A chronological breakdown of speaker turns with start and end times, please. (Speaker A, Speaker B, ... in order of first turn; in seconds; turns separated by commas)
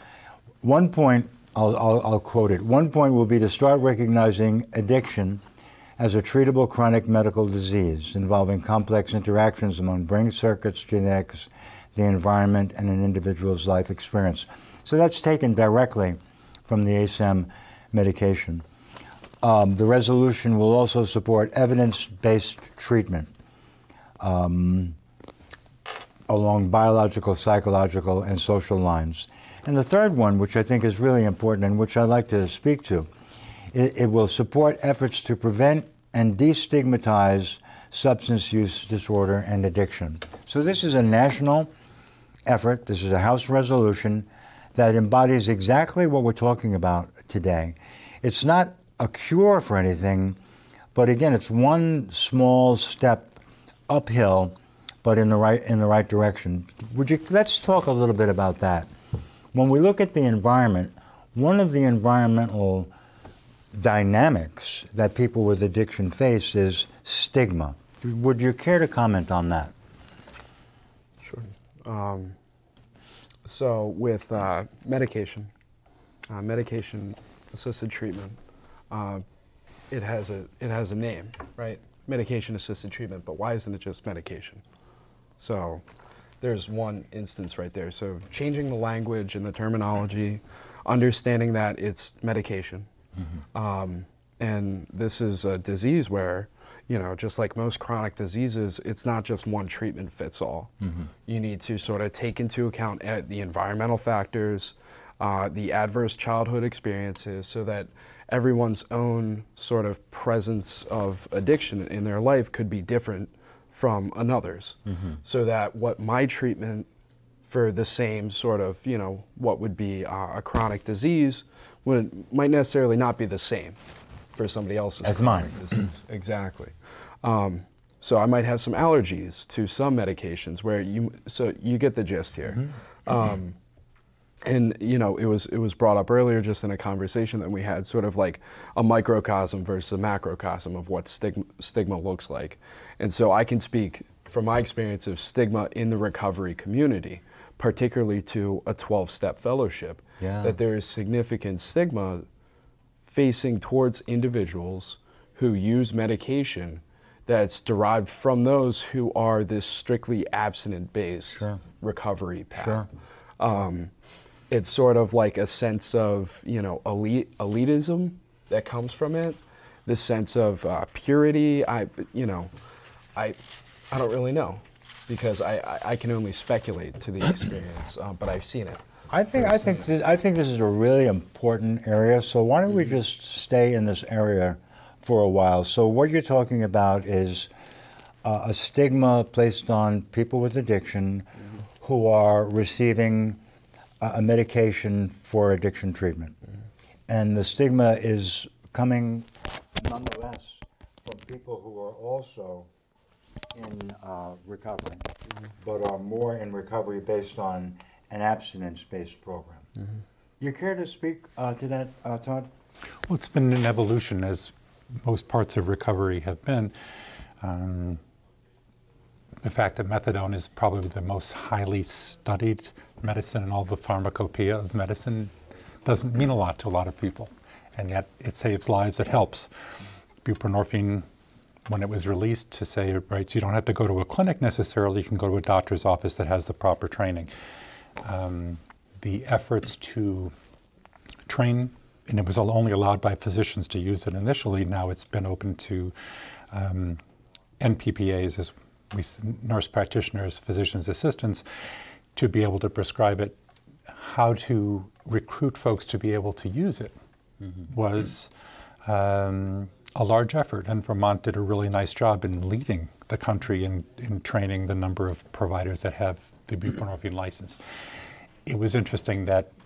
Speaker A: 0.6-5.4, Speaker A: 6.0-18.6, Speaker A: 19.4-23.3, Speaker A: 24.2-25.0, Speaker A: 26.3-33.1, Speaker A: 33.7-41.7, Speaker A: 42.5-50.4, Speaker A: 50.9-58.9, Speaker A: 59.5-62.9, Speaker A: 63.7-69.7, Speaker B: 71.2-72.4, Speaker B: 73.4-75.5, Speaker B: 76.3-78.4, Speaker B: 78.9-79.2, Speaker B: 79.9-84.6, Speaker B: 85.4-85.8, Speaker B: 86.4-92.9, Speaker B: 93.5-100.7, Speaker A: 100.8-101.1, Speaker B: 101.2-116.9, Speaker A: 114.9-115.2, Speaker B: 117.5-123.8, Speaker B: 124.3-133.6, Speaker A: 125.0-125.5, Speaker B: 134.4-152.2, Speaker A: 150.2-150.6, Speaker B: 153.1-162.9, Speaker A: 161.3-161.6, Speaker A: 162.6-162.9, Speaker B: 163.4-163.9, Speaker B: 164.5-172.5, Speaker B: 173.9-178.8, Speaker A: 179.1-187.5, Speaker B: 179.4-179.7, Speaker A: 188.2-191.3, Speaker A: 191.8-193.4, Speaker A: 194.0-196.4, Speaker A: 197.1-202.7, Speaker A: 203.5-209.7, Speaker A: 210.4-212.5, Speaker C: 213.0-216.7, Speaker C: 217.4-218.0, Speaker C: 219.4-229.5, Speaker C: 230.2-231.0, Speaker C: 231.7-237.3, Speaker C: 238.0-240.3, Speaker C: 241.3-245.9, Speaker C: 246.5-247.0, Speaker C: 247.6-251.5, Speaker C: 252.2-256.9, Speaker C: 257.7-258.3, Speaker C: 258.8-267.6, Speaker C: 268.4-269.5